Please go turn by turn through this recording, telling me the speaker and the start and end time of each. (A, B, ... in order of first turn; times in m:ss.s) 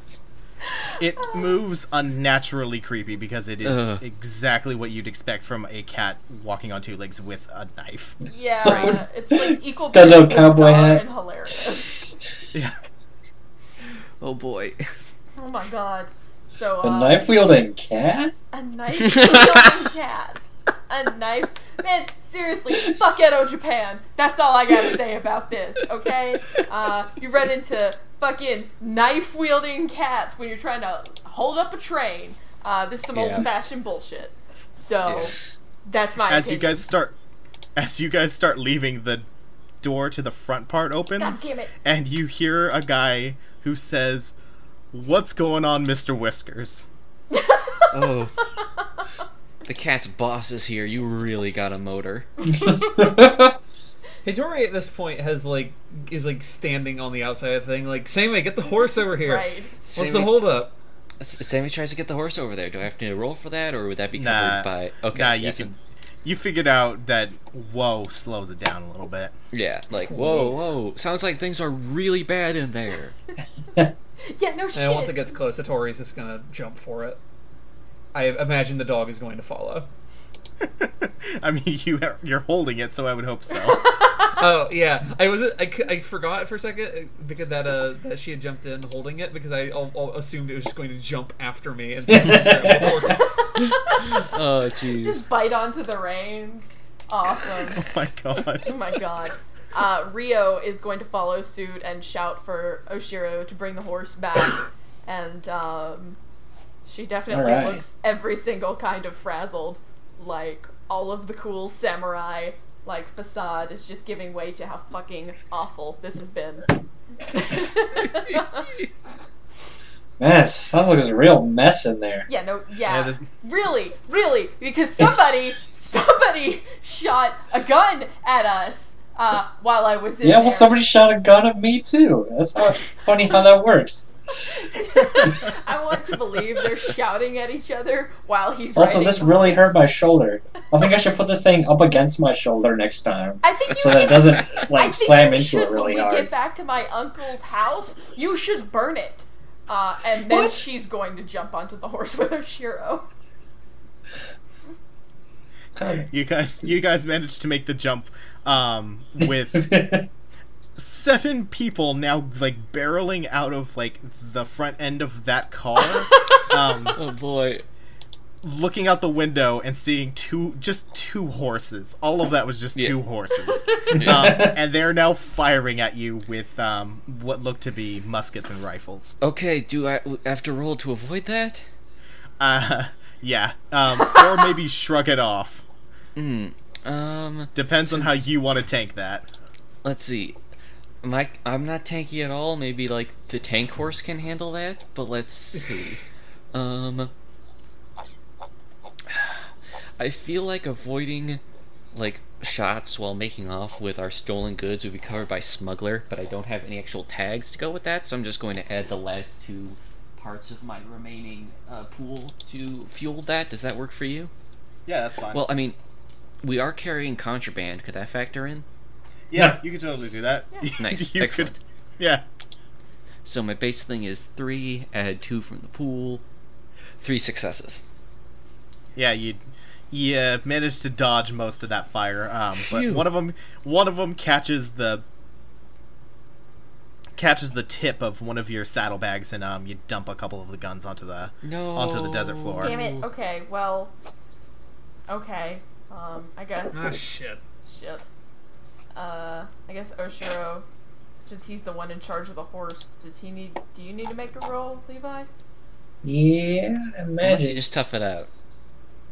0:01.0-0:08.2 A
0:03.6-0:04.0 B
0:08.2-0:12.1 C
0:08.6-0:11.0 D
0:14.2-0:14.9 B
0:15.4-0:17.3 C
0:16.8-0:18.3 D
0:18.5-0:36.8 C
0:19.2-0:19.6 B
0:33.1-0:33.4 B
0:35.0-0:35.3 B
0:36.3-0:37.2 A
0:37.8-0:39.3 A
0:39.8-0:44.3 A
0:41.2-0:41.7 C
0:44.9-0:46.8 A
0:47.3-0:47.9 C
0:47.9-0:48.4 B
0:49.6-0:52.3 B
0:52.4-0:53.2 C
0:52.7-0:53.5 D
0:54.2-1:00.7 E
0:59.1-0:59.7 C
0:59.8-1:00.4 B
1:01.2-1:05.7 B
1:04.1-1:09.3 A
1:09.5-1:13.2 B
1:10.1-1:10.6 E
1:14.2-1:15.2 C
1:14.7-1:17.2 E
1:18.1-1:19.9 E
1:20.6-1:23.9 A
1:23.7-1:24.3 C
1:24.4-1:33.7 E
1:32.1-1:32.9 D
1:33.1-1:34.3 C
1:34.2-1:35.2 B
1:35.0-1:37.8 C
1:37.7-1:38.7 A
1:38.6-1:46.2 C
1:46.8-1:56.7 C
1:47.3-1:47.8 D
1:57.2-1:58.7 C
2:00.2-2:02.3 D
2:02.3-2:10.8 C
2:02.9-2:03.3 A
2:10.2-2:14.1 D
2:14.4-2:19.8 C
2:18.7-2:26.3 D
2:23.4-2:33.1 C
2:30.3-2:30.5 D
2:35.8-2:36.0 D
2:36.1-2:39.8 A
2:39.6-2:40.0 D
2:40.8-2:47.0 A
2:46.9-2:47.6 B
2:48.4-2:59.2 A
2:53.9-2:54.5 B
2:54.1-2:54.5 D
2:59.2-3:01.6 B
3:02.4-3:05.6 A
3:06.2-3:08.2 B
3:07.5-3:09.3 A
3:09.8-3:10.4 B
3:11.0-3:16.0 B
3:15.5-3:16.0 E
3:16.5-3:17.1 B
3:19.1-3:19.5 B
3:20.0-3:21.4 B
3:21.9-3:34.3 B
3:34.8-3:35.4 A
3:35.3-3:35.8 B
3:36.4-3:38.6 B
3:39.3-3:42.2 A
3:40.8-3:41.6 B
3:43.2-3:46.2 B
3:47.0-3:47.8 B
3:49.0-3:55.0 A
3:52.7-3:53.1 B
3:57.2-4:02.8 A
4:01.4-4:03.0 B
4:02.6-4:03.9 C
4:05.1-4:07.0 C
4:06.7-4:07.4 E
4:07.6-4:08.0 C
4:08.9-4:10.6 C
4:11.2-4:15.3 C
4:16.0-4:17.6 D
4:17.2-4:18.3 B